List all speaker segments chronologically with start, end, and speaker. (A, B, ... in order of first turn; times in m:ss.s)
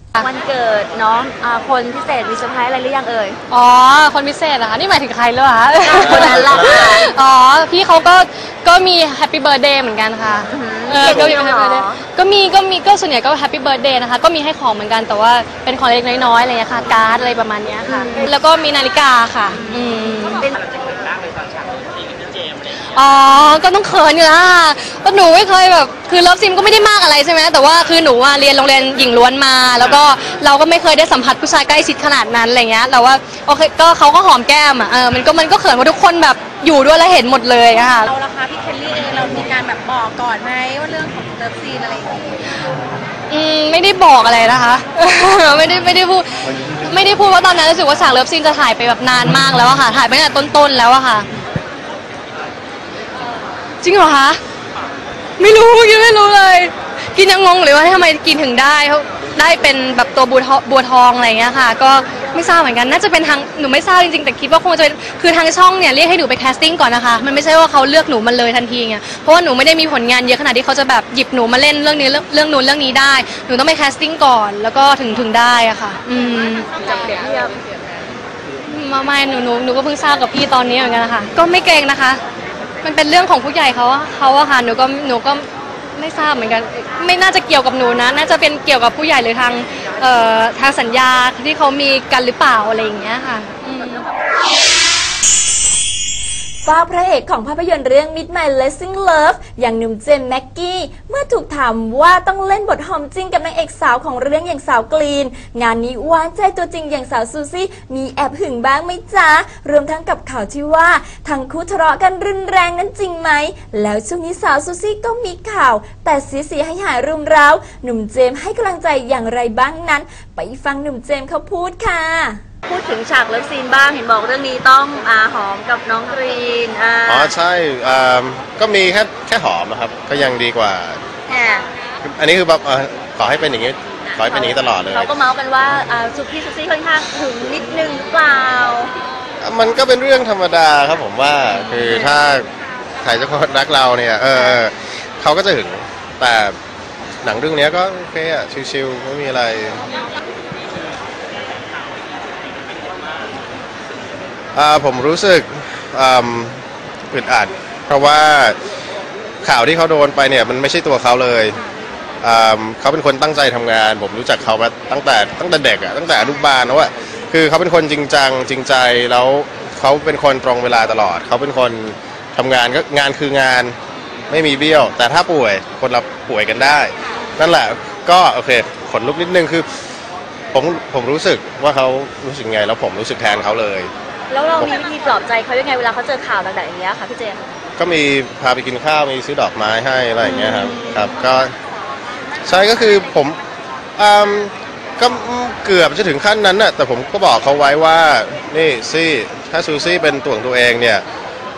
0:00.2-0:03.4 A
0:03.5-0:20.5 B
0:05.8-0:07.1 A
0:10.5-0:12.0 A
0:17.9-0:18.3 A
0:23.0-0:38.1 B
0:38.1-0:42.4 C
0:43.3-0:51.3 B
0:53.8-0:54.4 B
0:55.4-1:16.7 B
1:16.9-1:17.6 A
1:18.7-1:22.2 B
1:22.8-1:34.1 B
1:36.6-2:02.4 D
2:02.7-2:07.3 A
2:07.1-2:11.0 E
2:11.3-2:11.7 A
2:12.0-2:15.1 E
2:14.1-2:18.9 A
2:19.4-2:22.5 E
2:23.0-2:26.6 E
2:27.2-2:29.8 E
2:34.6-2:36.6 E
2:37.1-2:38.6 E
2:39.4-2:41.6 E
2:42.2-2:53.8 E
2:54.3-2:59.7 E
3:00.5-3:03.9 E
3:04.3-3:07.5 A
3:07.8-3:11.5 E
3:10.4-3:10.9 A
3:12.4-3:13.4 E
3:14.0-3:21.0 E